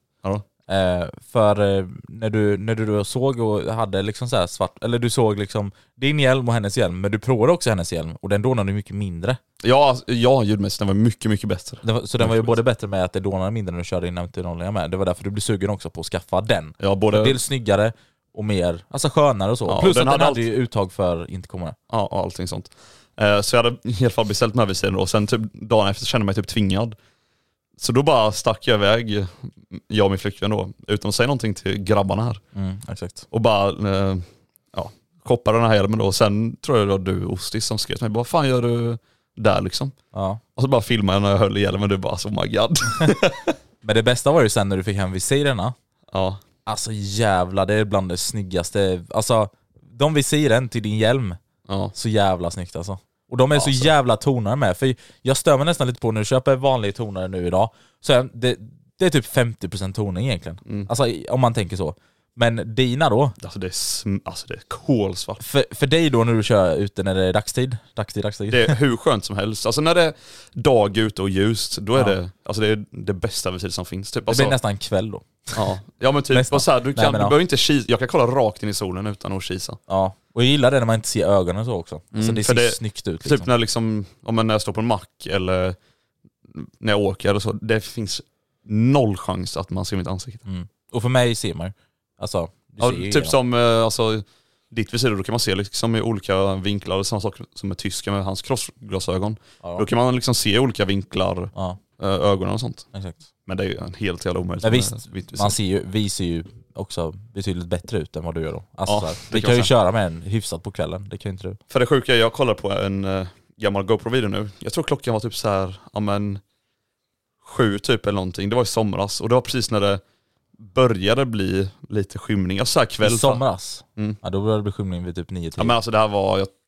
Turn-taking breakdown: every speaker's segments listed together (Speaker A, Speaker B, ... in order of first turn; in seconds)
Speaker A: 0.7-9.4, 11.8-21.8, 32.5-33.2, 40.1-40.4, 43.8-45.8, 46.7-51.4, 51.9-63.4, 65.4-68.8, 74.3-75.6, 76.3-77.4, 79.9-83.5, 90.5-93.4, 102.9-103.2, 104.6-111.6, 123.0-125.8
Speaker B: 9.6-12.5, 16.8-17.4, 19.7-20.4, 21.9-27.0, 27.8-32.4, 33.3-40.0, 40.6-43.5, 46.1-46.4, 51.7-51.9, 53.5-53.9, 60.6-60.9, 63.4-65.4, 68.5-74.6, 75.5-79.8, 82.1-85.8, 86.5-90.4, 92.8-102.9, 103.5-105.6, 108.9-109.7, 111.7-116.4, 117.4-120.0, 120.6-123.4, 125.6-126.5